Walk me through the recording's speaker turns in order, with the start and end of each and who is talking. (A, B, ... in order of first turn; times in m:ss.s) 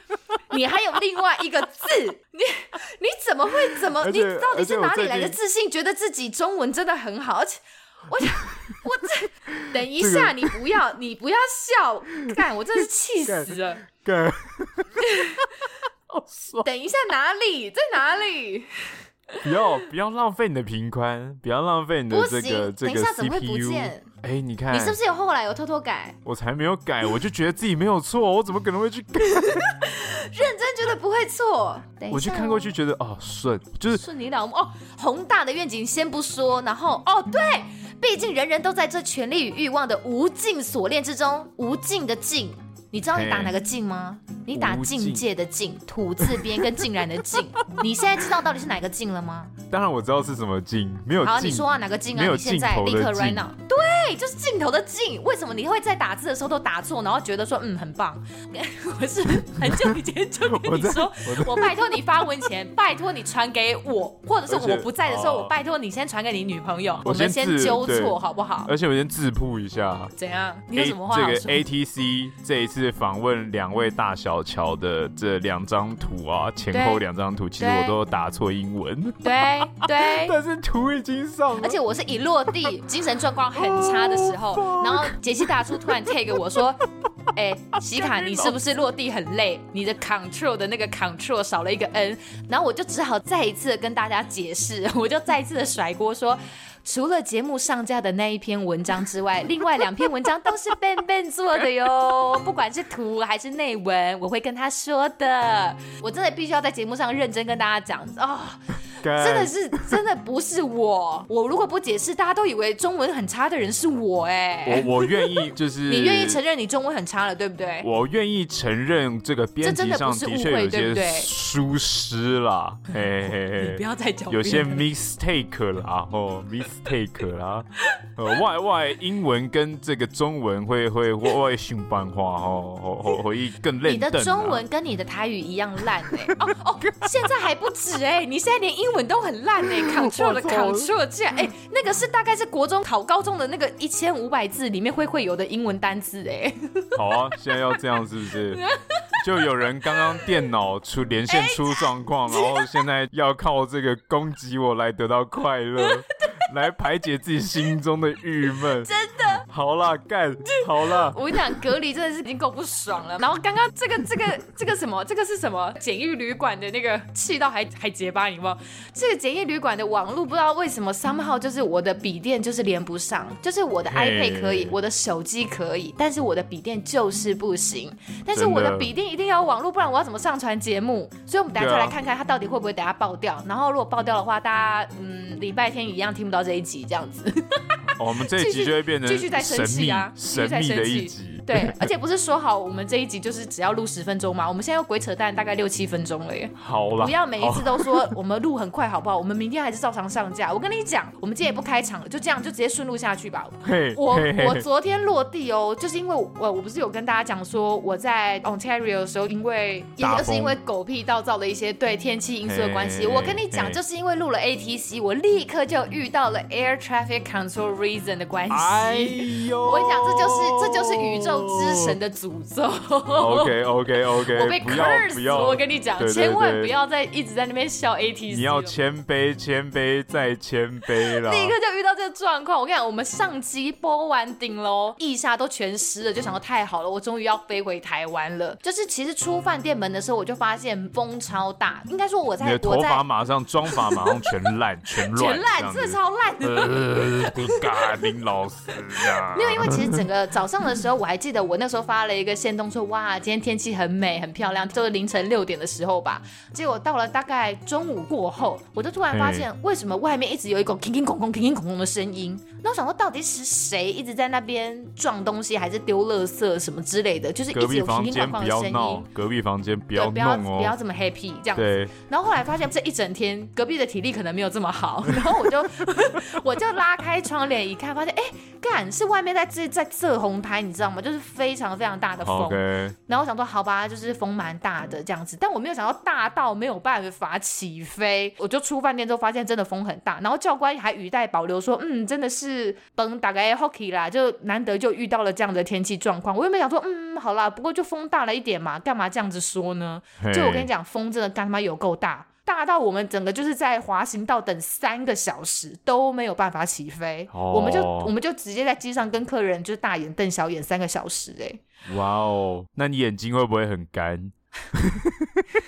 0:00.5-0:13.8 A
0:03.7-0:05.4 B
0:09.8-0:10.6 B
0:13.2-0:16.7 B
0:15.0-0:15.5 A
0:16.6-0:19.4 A
0:19.4-0:25.0 B
0:22.1-0:24.1 A
0:24.7-0:26.2 A
0:26.2-0:29.6 B
0:29.4-0:32.7 A
0:32.1-0:34.0 B
0:33.9-0:49.5 A
0:43.1-0:43.5 B
0:44.5-0:45.2 B
0:46.2-0:46.7 B
0:49.7-0:53.5 B
0:51.2-1:08.7 A
0:59.7-0:59.9 B
1:00.5-1:01.8 B
1:04.5-1:05.5 B
1:07.0-1:10.1 B
1:10.2-1:11.6 A
1:10.8-1:21.8 B
1:16.7-1:17.0 A
1:17.6-1:18.0 A
1:19.2-1:20.4 A
1:21.6-1:48.6 A
1:23.5-1:26.2 B
1:27.9-1:28.6 B
1:49.0-1:49.6 B
1:49.1-1:57.9 A
1:54.6-1:56.4 B
1:57.8-2:14.6 B
1:59.6-2:01.3 A
2:03.3-2:04.9 A
2:13.8-2:27.8 A
2:19.7-2:20.9 B
2:26.9-2:28.6 B
2:28.5-2:30.3 A
2:29.2-2:41.6 B
2:31.3-2:32.7 A
2:35.8-2:36.4 A
2:38.8-2:39.4 A
2:40.6-3:43.6 A
2:53.9-2:54.8 B
2:58.3-2:58.9 B
3:01.5-3:02.0 B
3:08.0-3:11.8 B
3:16.6-3:18.1 B
3:23.6-3:24.6 B
3:30.0-3:30.6 B
3:32.4-3:33.8 B
3:38.5-3:41.9 B
3:43.2-3:46.7 B
3:44.3-3:48.7 A
3:48.3-3:51.6 B
3:51.1-4:03.0 A
4:02.4-4:10.0 B
4:03.7-4:04.0 A
4:05.1-4:08.1 A
4:09.0-4:29.1 A
4:19.1-4:19.5 B
4:27.5-4:30.8 B
4:29.9-5:11.6 A
4:31.6-4:31.9 B
4:42.2-4:42.9 B
5:00.2-5:00.7 B
5:07.3-5:08.1 B
5:11.9-5:15.6 B